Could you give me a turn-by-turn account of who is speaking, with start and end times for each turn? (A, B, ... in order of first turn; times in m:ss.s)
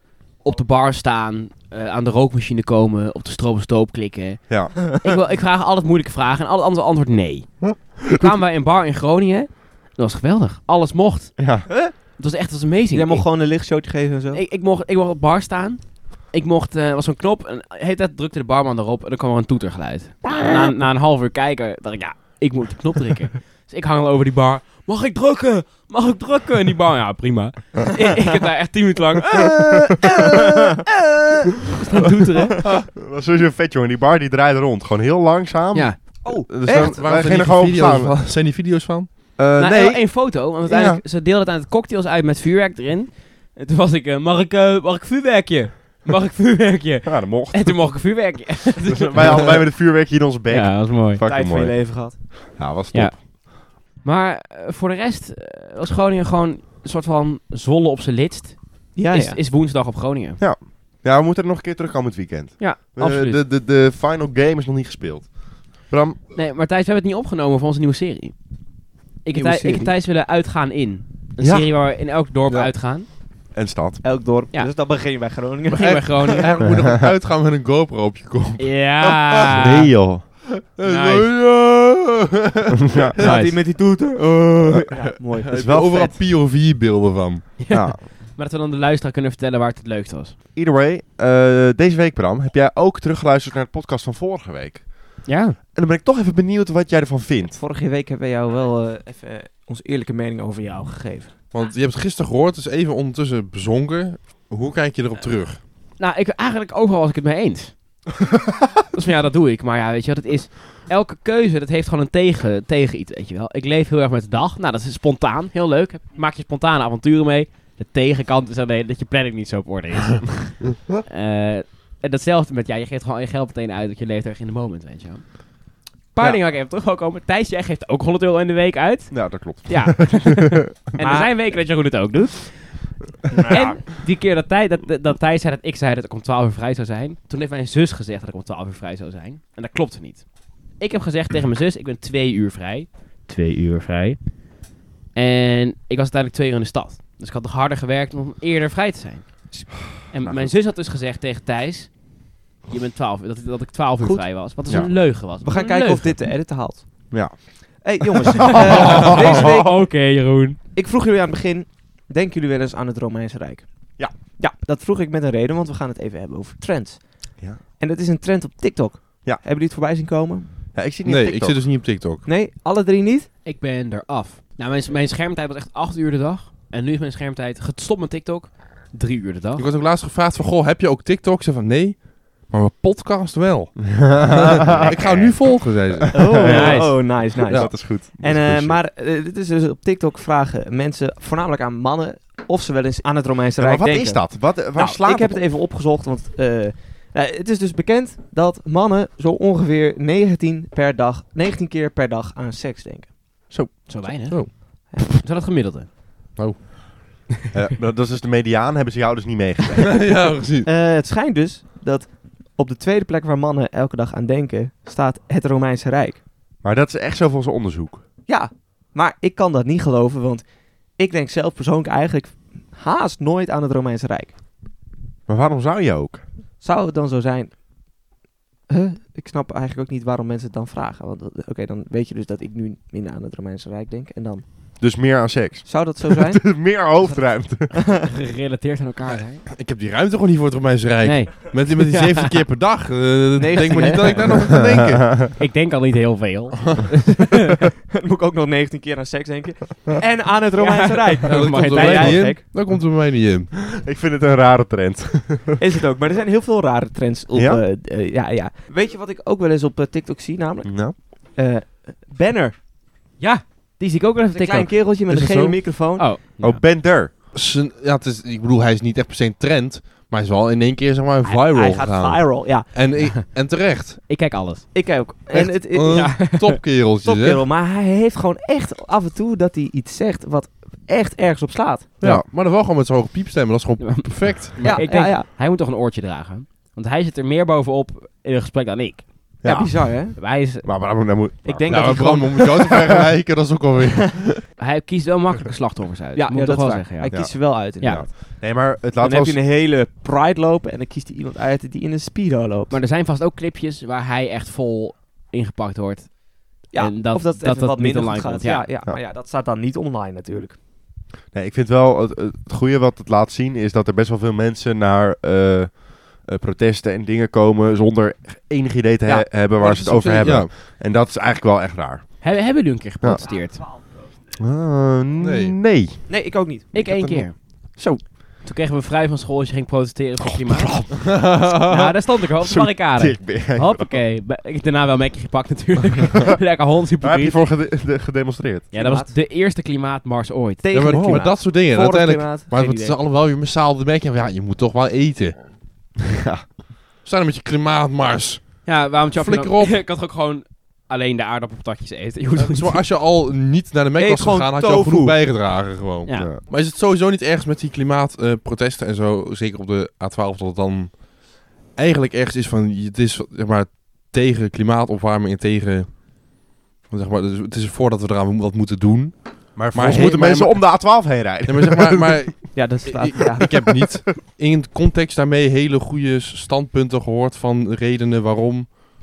0:00.4-0:13.3 A
0:04.5-0:04.7 B
0:07.7-0:08.2 B
0:11.4-0:11.7 B
0:11.7-0:11.9 C
0:12.9-0:14.4 C
0:14.3-0:32.6 A
0:32.8-0:38.2 B
0:35.7-0:36.0 A
0:36.2-0:37.0 C
0:36.7-0:39.2 D
0:39.4-0:41.0 B
0:39.6-0:49.5 A
0:47.0-0:47.8 B
0:48.9-0:53.2 B
0:50.5-0:51.2 A
0:51.2-0:52.2 C
0:52.9-1:00.4 A
0:58.9-0:59.4 C
1:00.4-1:06.2 B
1:02.6-1:03.4 A
1:06.3-1:08.5 A
1:09.2-1:13.1 A
1:09.3-1:09.9 C
1:11.4-1:11.7 B
1:13.5-1:14.0 B
1:14.0-1:16.4 C
1:15.7-1:16.5 A
1:15.8-1:19.4 D
1:18.6-1:19.9 A
1:19.5-1:20.2 B
1:20.7-1:23.4 D
1:20.8-1:21.3 A
1:22.9-1:23.2 B
1:23.2-1:26.1 C
1:23.2-1:23.5 A
1:24.7-1:27.5 D
1:25.5-1:26.0 B
1:27.6-1:30.3 A
1:27.7-1:28.0 B
1:30.5-1:37.6 B
1:35.2-1:35.6 A
1:37.6-1:41.4 C
1:41.5-1:45.6 D
1:46.0-1:48.0 A
1:48.9-2:24.4 A
2:09.1-2:10.4 B
2:11.0-2:11.3 C
2:13.3-2:13.8 C
2:25.1-2:36.2 A
2:30.2-2:30.5 B
2:34.7-2:34.9 B
2:35.4-2:39.9 C
2:37.1-2:37.8 B
2:38.4-2:39.4 B
2:38.5-2:40.6 A
2:38.9-2:39.3 D
2:40.7-2:50.5 C
2:50.7-2:51.6 B
2:51.0-2:52.2 D
2:52.2-2:53.3 C
2:53.4-2:59.6 A
2:59.6-3:07.7 D
3:03.8-3:08.8 B
3:06.1-3:23.5 C
3:06.4-3:06.9 A
3:13.6-3:15.4 B
3:23.7-3:25.9 A
3:24.9-3:25.2 C
3:26.4-3:26.6 D
3:27.5-3:30.0 B
3:29.8-3:30.7 D
3:30.6-3:36.2 C
3:36.6-3:38.0 B
3:38.3-3:44.4 C
3:45.3-3:46.2 B
3:46.6-3:47.5 C
3:48.7-3:54.4 C
3:54.8-3:57.8 B
3:55.6-3:57.2 C
3:58.0-3:59.4 A
3:59.4-4:05.3 D
4:01.0-4:02.4 A
4:03.4-4:04.4 C
4:04.7-4:05.3 B
4:05.4-4:07.4 A
4:07.9-4:12.4 C
4:10.6-4:12.2 A
4:11.2-4:13.5 D
4:13.5-4:15.6 B
4:15.6-4:22.6 C
4:17.3-4:17.6 B
4:20.6-4:21.0 B
4:23.2-4:24.8 A
4:24.3-4:26.1 C
4:25.2-4:25.4 D
4:25.9-4:26.6 A
4:26.4-4:27.1 B
4:27.3-4:34.1 D
4:31.2-4:32.7 C
4:34.0-4:34.7 A
4:34.7-4:36.2 C
4:35.3-4:37.4 D
4:35.9-4:36.6 A
4:37.0-4:41.9 C
4:42.0-4:44.8 D
4:43.8-4:49.3 A
4:44.6-4:45.3 C
4:49.4-4:52.0 B
4:49.4-4:50.2 C
4:50.1-4:50.7 A
4:51.4-4:52.8 C
4:51.7-4:54.4 D
4:54.6-4:58.0 A
4:56.1-4:58.4 C
4:57.1-4:59.4 B
4:59.0-5:02.8 C
5:02.7-5:08.7 A
5:06.7-5:10.6 C
5:11.3-5:22.3 B
5:19.5-5:20.5 D
5:22.2-5:23.6 A
5:24.4-5:26.0 B
5:25.2-5:25.6 D
5:26.1-5:26.9 C
5:26.7-5:27.8 A
5:26.8-5:28.0 B
5:28.4-5:37.4 A
5:30.2-5:31.5 B
5:31.1-5:31.9 D
5:32.4-5:34.0 B
5:37.0-5:38.7 B
5:38.7-5:40.9 A
5:38.7-5:39.1 C
5:40.6-5:43.0 C
5:40.7-5:45.5 D
5:40.9-5:41.2 B
5:46.2-5:46.5 B
5:47.0-5:49.8 D
5:48.6-5:52.8 A
5:52.4-6:18.8 D
5:54.0-5:55.2 C
5:56.0-5:56.3 A
5:56.2-5:56.4 B
6:09.5-6:12.3 B
6:12.5-6:13.6 C